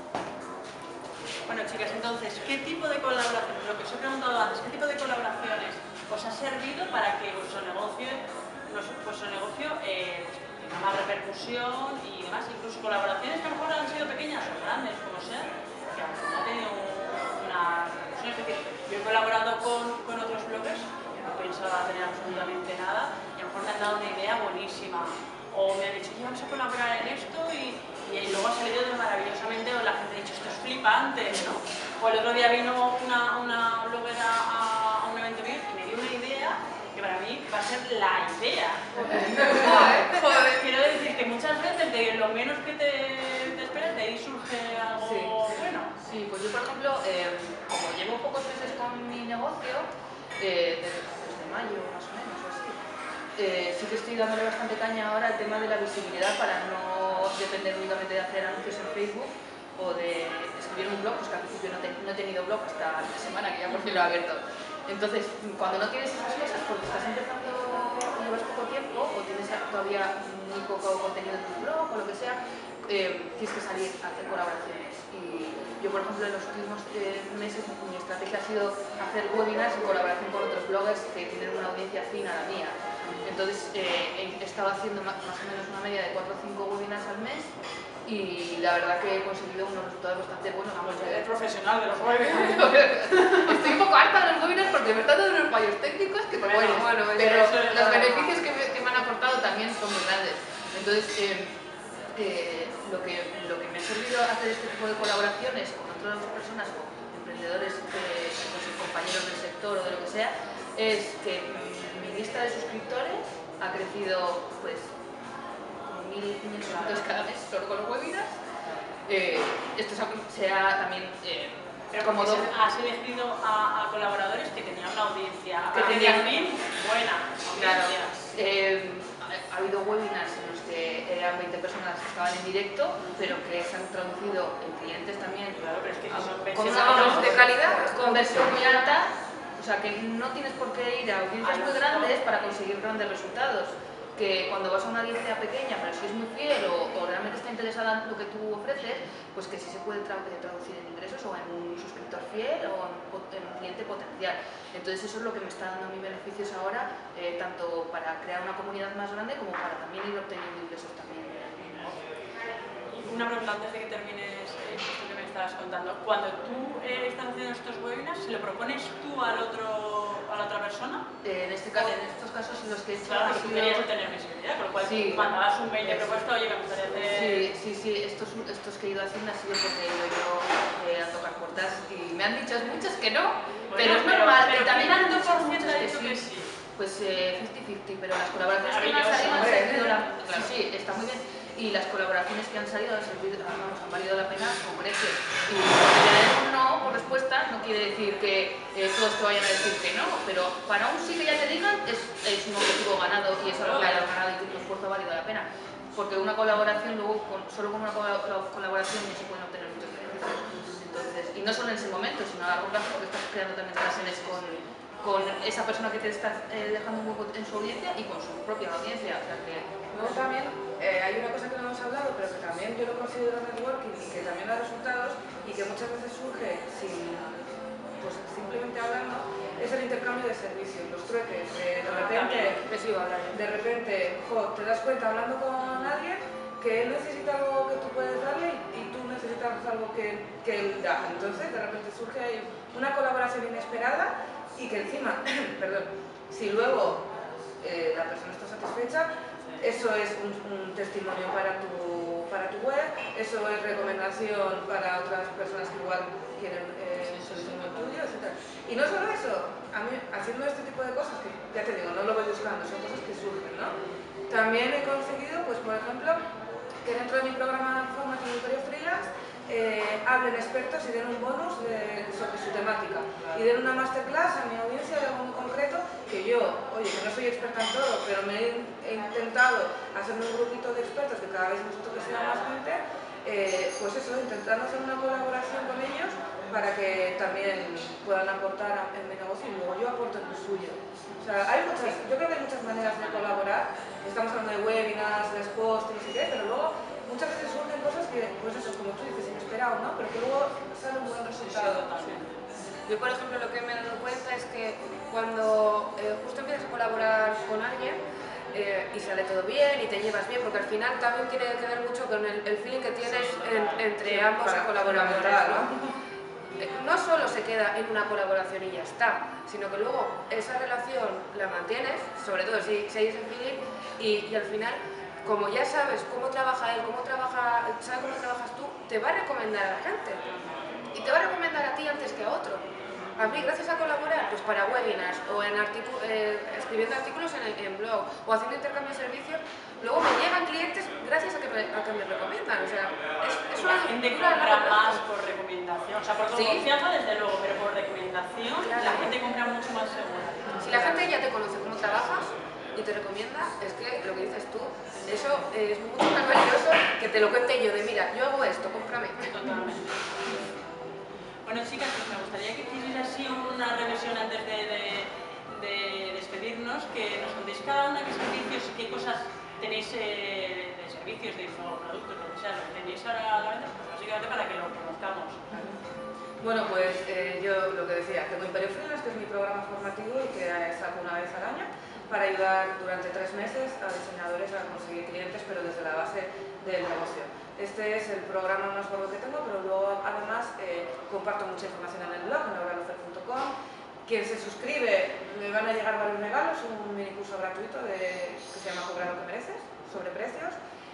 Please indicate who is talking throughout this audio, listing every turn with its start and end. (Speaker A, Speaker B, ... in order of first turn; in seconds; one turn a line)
Speaker A: 1.4-45.9
Speaker B: 39.0-40.1
Speaker C: 39.0-40.0
Speaker D: 40.0-40.6
Speaker B: 45.0-45.5
Speaker C: 46.0-49.9
Speaker C: 50.4-52.8
Speaker C: 53.4-87.5
Speaker C: 88.0-91.3
Speaker A: 90.8-92.8
Speaker C: 92.1-101.6
Speaker A: 96.4-98.0
Speaker D: 96.6-98.3
Speaker C: 102.1-114.9
Speaker C: 115.8-118.4
Speaker A: 116.6-117.0
Speaker C: 119.1-122.5
Speaker A: 121.9-128.2
Speaker C: 125.7-126.4
Speaker D: 125.8-126.3
Speaker D: 127.5-127.9
Speaker C: 128.3-135.6
Speaker A: 133.0-133.3
Speaker A: 135.6-137.4
Speaker C: 136.1-162.0
Speaker D: 136.5-138.9
Speaker A: 141.4-142.2
Speaker A: 162.9-171.1
Speaker C: 171.2-173.9
Speaker A: 173.0-177.5
Speaker C: 174.8-176.1
Speaker C: 177.1-186.2
Speaker A: 183.7-186.5
Speaker C: 186.8-220.2
Speaker A: 188.6-190.5
Speaker A: 203.6-204.0
Speaker A: 213.9-214.4
Speaker B: 219.9-227.4
Speaker B: 228.0-232.6
Speaker A: 231.9-232.6
Speaker D: 232.6-233.4
Speaker B: 233.3-263.8
Speaker A: 257.0-257.6
Speaker B: 264.3-266.2
Speaker B: 266.8-302.2
Speaker A: 301.2-302.4
Speaker D: 302.9-308.0
Speaker D: 308.5-315.7
Speaker A: 313.0-313.9
Speaker B: 314.0-316.0
Speaker D: 316.6-330.2
Speaker A: 330.3-330.6
Speaker D: 330.9-345.0
Speaker A: 332.9-333.2
Speaker A: 343.6-351.1
Speaker D: 346.3-346.7
Speaker D: 348.6-349.1
Speaker D: 350.6-359.3
Speaker A: 359.2-359.9
Speaker A: 361.4-375.6
Speaker B: 375.5-375.8
Speaker B: 376.4-393.5
Speaker B: 394.1-400.6